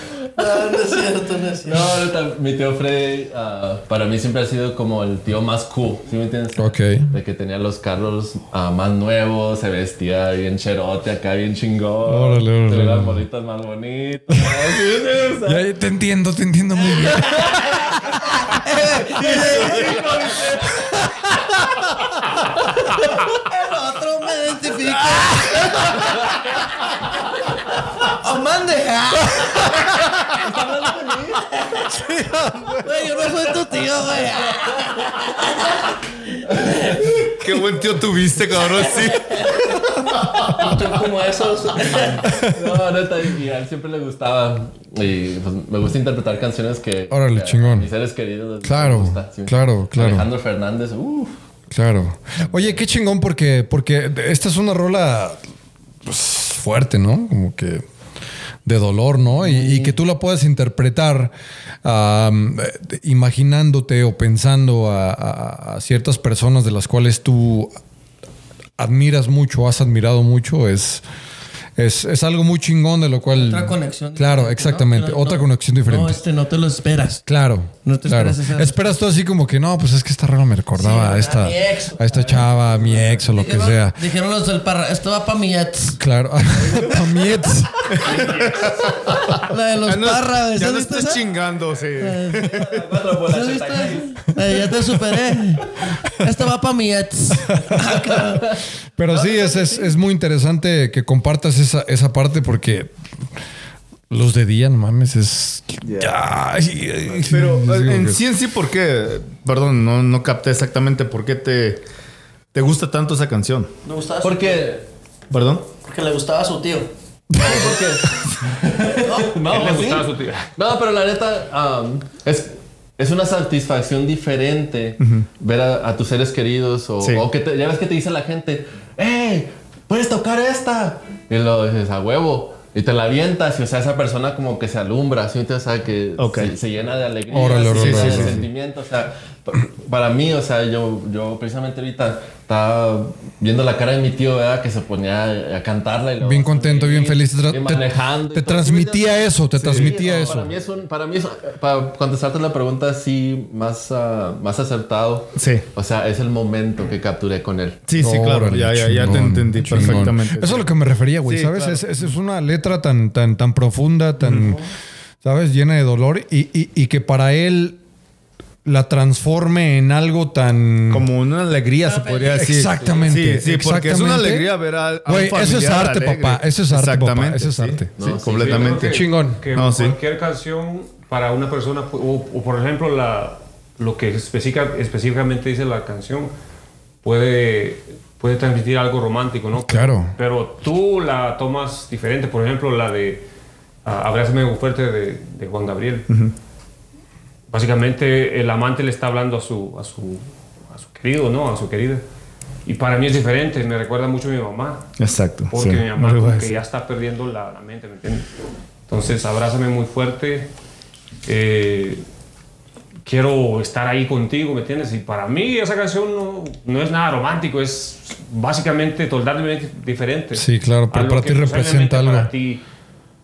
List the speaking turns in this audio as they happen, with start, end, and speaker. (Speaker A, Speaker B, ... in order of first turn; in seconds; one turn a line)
Speaker A: 0.3-2.0
Speaker B: 1.6-15.6
Speaker C: 6.5-7.1
Speaker C: 12.1-13.2
Speaker C: 14.3-14.7
Speaker C: 15.4-18.5
Speaker A: 18.6-19.9
Speaker B: 19.3-20.4
Speaker A: 23.0-26.1
Speaker A: 28.0-29.7
Speaker A: 30.5-31.0
Speaker C: 31.9-32.8
Speaker A: 32.8-35.6
Speaker A: 36.4-37.0
Speaker D: 37.2-40.6
Speaker A: 39.0-39.5
Speaker A: 40.5-42.3
Speaker B: 42.5-51.4
Speaker C: 47.1-47.9
Speaker C: 48.6-50.3
Speaker C: 51.7-55.4
Speaker C: 56.0-57.8
Speaker C: 58.6-67.7
Speaker B: 59.4-59.9
Speaker C: 68.8-71.0
Speaker C: 71.8-76.2
Speaker A: 73.3-77.2
Speaker C: 77.3-84.0
Speaker A: 77.8-79.0
Speaker A: 80.8-82.1
Speaker B: 82.2-82.5
Speaker A: 83.3-86.0
Speaker C: 86.0-87.9
Speaker D: 87.9-88.8
Speaker B: 88.0-88.8
Speaker A: 89.4-91.2
Speaker D: 89.8-92.8
Speaker A: 92.0-92.6
Speaker B: 92.5-94.3
Speaker A: 93.3-98.5
Speaker C: 99.0-102.9
Speaker B: 99.1-99.8
Speaker C: 104.1-108.2
Speaker D: 105.8-106.1
Speaker D: 107.1-111.8
Speaker D: 112.5-113.7
Speaker A: 113.8-114.8
Speaker B: 114.2-114.8
Speaker D: 115.3-115.7
Speaker A: 115.8-117.8
Speaker C: 117.3-117.8
Speaker B: 117.3-158.0
Speaker A: 118.9-119.9
Speaker E: 119.5-120.5
Speaker D: 125.0-125.3
Speaker D: 136.2-136.5
Speaker C: 137.3-138.5
Speaker D: 137.7-138.5
Speaker C: 146.2-150.5
Speaker D: 149.6-150.0
Speaker D: 155.3-155.7
Speaker D: 157.9-160.7
Speaker C: 158.0-164.6
Speaker D: 161.3-161.9
Speaker D: 164.2-164.6
Speaker C: 165.2-167.8
Speaker C: 168.6-171.1
Speaker D: 170.9-179.0
Speaker A: 171.8-172.6
Speaker C: 172.3-174.5
Speaker B: 172.7-173.2
Speaker C: 175.1-177.9
Speaker B: 178.0-178.8
Speaker E: 178.4-186.3
Speaker C: 178.7-179.4
Speaker D: 179.5-180.0
Speaker E: 187.0-193.2
Speaker C: 189.6-190.1
Speaker E: 193.8-196.1
Speaker D: 196.1-196.3
Speaker E: 197.5-202.0
Speaker E: 202.7-204.9
Speaker D: 205.0-206.6
Speaker E: 205.5-208.3
Speaker E: 208.9-210.5
Speaker E: 211.3-212.0
Speaker E: 213.1-222.6
Speaker C: 220.3-222.3